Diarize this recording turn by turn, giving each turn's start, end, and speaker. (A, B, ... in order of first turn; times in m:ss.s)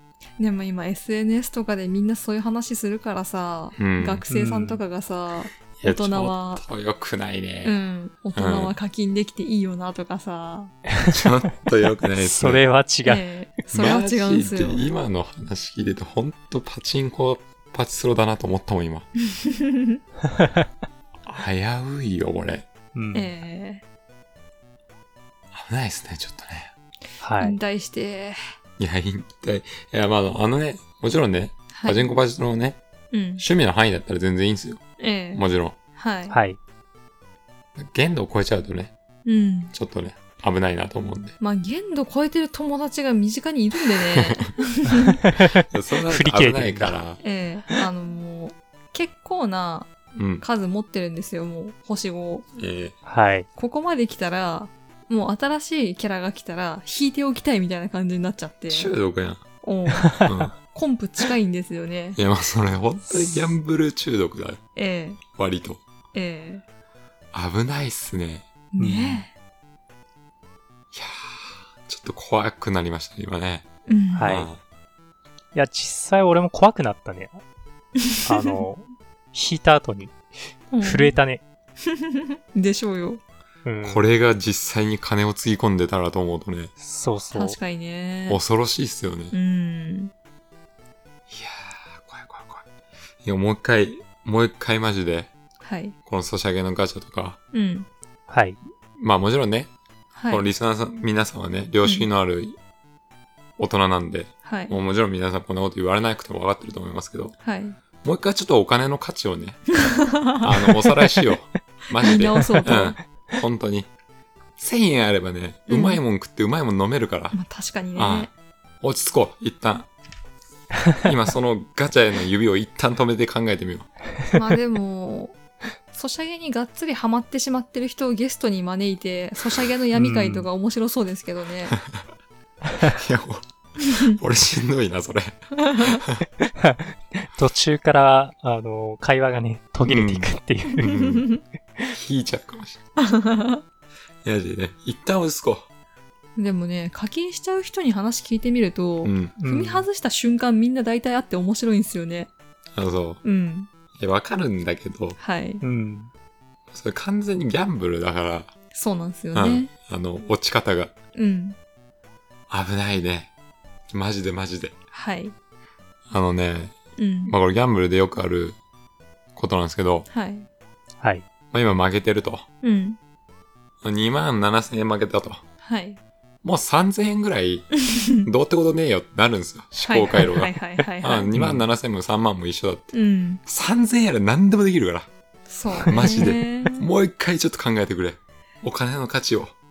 0:00.4-0:06.6 A
0:03.8-0:04.2 B
0:04.3-0:04.8 C
0:05.8-0:07.8 B
0:07.6-0:10.7 A
0:08.3-0:08.8 B
0:11.1-0:12.6 B
0:12.2-0:13.2 C
0:13.0-0:14.8 A
0:13.7-0:19.1 B
0:19.4-0:20.0 A
0:21.2-0:22.6 B
0:22.9-0:23.3 C
0:23.1-0:23.8 A
0:25.5-0:26.7 B
0:27.2-0:27.6 C
0:27.4-0:28.4 A
0:28.8-0:32.8 B
0:31.7-0:32.2 A
0:33.1-0:33.4 A
0:33.4-0:35.8 B
0:35.0-0:36.4 A
0:36.3-0:36.6 C
0:37.8-0:38.9 B
0:39.2-0:39.7 A
0:39.7-0:41.3 B
0:41.4-0:45.2 A
0:44.1-0:44.5 B
0:45.3-0:47.0 C
0:45.7-0:47.2 B
0:47.2-0:52.5 A
0:50.1-0:50.4 B
0:52.6-0:53.0 B
0:53.0-0:53.5 C
0:53.5-0:58.9 A
0:58.7-0:59.4 B
0:59.6-1:02.2 A
1:00.2-1:00.5 B
1:02.2-1:04.6 B
1:03.0-1:03.6 A
1:04.8-1:05.2 A
1:05.3-1:05.8 B
1:06.1-1:06.6 A
1:07.3-1:08.4 B
1:08.7-1:09.3 A
1:08.8-1:09.2 C
1:10.9-1:13.7 B
1:13.9-1:14.3 A
1:14.2-1:14.5 C
1:14.2-1:14.6 B
1:15.5-1:17.4 C
1:18.0-1:18.6 A
1:18.2-1:21.4 C
1:20.7-1:21.2 A
1:21.8-1:23.2 A
1:23.6-1:24.0 C
1:23.8-1:26.7 B
1:26.8-1:27.6 C
1:27.3-1:28.4 A
1:28.3-1:29.3 B
1:29.3-1:30.1 A
1:31.3-1:32.6 B
1:33.2-1:35.3 B
1:35.6-1:35.9 A
1:36.0-1:37.4 B
1:37.5-1:37.9 A
1:38.3-1:38.6 C
1:39.0-1:39.7 B
1:40.2-1:40.4 A
1:40.3-1:42.6 B
1:43.6-1:47.4 B
1:44.4-1:44.8 A
1:47.4-1:47.8 A
1:48.0-1:49.8 B
1:49.8-1:50.4 A
1:50.3-1:53.9 B
1:52.0-1:53.0 A
1:54.6-1:57.4 B
1:55.7-1:56.0 A
1:57.3-1:58.3 A
1:57.9-1:59.9 B
2:01.0-2:03.9 B
2:04.3-2:05.4 A
2:05.9-2:11.8 A
2:09.9-2:10.5 C
2:12.8-2:16.2 B
2:15.6-2:15.9 A
2:16.4-2:21.3 C
2:19.8-2:20.3 B
2:20.8-2:21.2 B
2:21.9-2:22.8 B
2:23.0-2:23.6 A
2:24.2-2:25.7 B
2:26.4-2:32.3 A
2:29.0-2:29.4 B
2:29.4-2:29.8 C
2:32.7-2:33.2 B
2:33.2-2:33.7 A
2:33.9-2:35.2 B
2:35.2-2:35.6 A
2:35.6-2:36.1 C
2:36.7-2:38.5 B
2:38.7-2:39.7 A
2:39.3-2:40.9 B
2:41.1-2:41.6 A
2:42.5-2:43.3 B
2:43.9-2:44.8 B
2:44.9-2:45.3 A
2:46.1-2:48.6 B
2:47.0-2:47.3 A
2:49.3-2:50.1 B
2:50.1-2:50.4 A
2:51.5-2:52.4 B
2:52.6-2:53.0 A
2:53.8-2:55.4 B
2:55.6-2:56.0 A
2:56.4-3:02.9 B
2:57.8-2:58.3 A
2:59.8-3:01.3 A
3:01.3-3:01.6 C
3:02.9-3:03.4 A
3:03.4-3:05.1 B
3:05.5-3:06.9 A
3:05.8-3:09.5 B
3:05.9-3:06.2 C